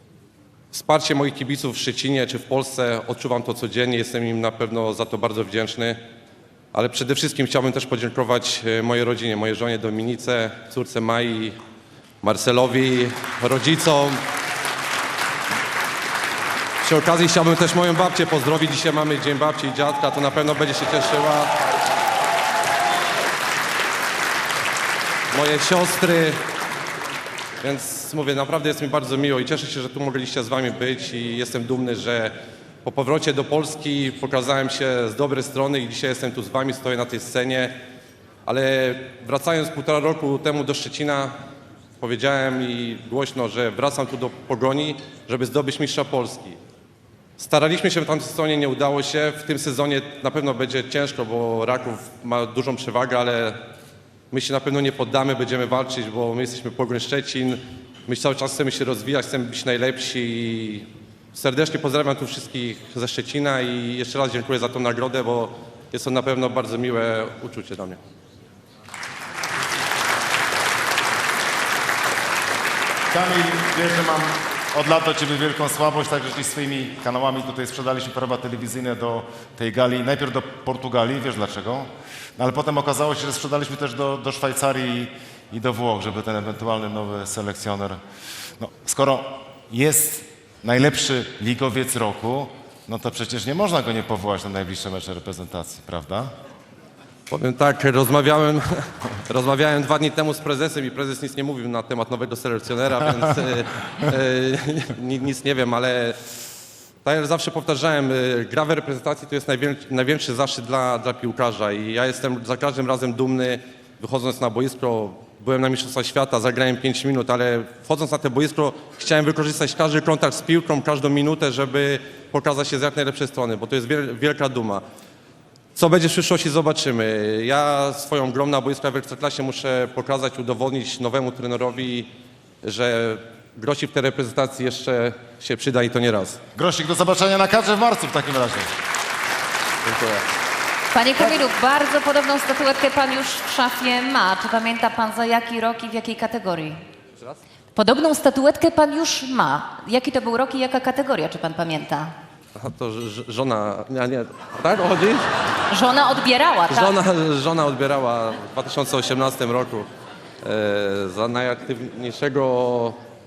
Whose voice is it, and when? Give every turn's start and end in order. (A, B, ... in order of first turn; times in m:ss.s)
0:00.7-0:06.0 A
0:06.7-0:11.6 A
0:12.2-0:14.2 A
0:16.8-0:21.5 A
0:25.3-0:26.4 A
0:27.6-0:32.3 A
0:32.8-0:37.7 A
0:38.5-0:41.3 A
0:42.0-0:46.6 A
0:47.4-0:53.6 A
0:54.3-1:08.0 A
1:13.1-1:28.0 B
1:28.6-1:36.3 B
1:37.3-1:46.2 A
1:47.0-2:04.8 A
2:05.8-2:12.1 A
2:12.6-2:16.4 A
2:16.6-2:18.7 B
2:19.8-2:20.2 A
2:20.9-2:26.8 C
2:27.8-2:32.1 C
2:32.6-2:35.2 A
2:35.7-2:36.9 C
2:36.7-2:39.9 A
2:40.4-2:43.0 A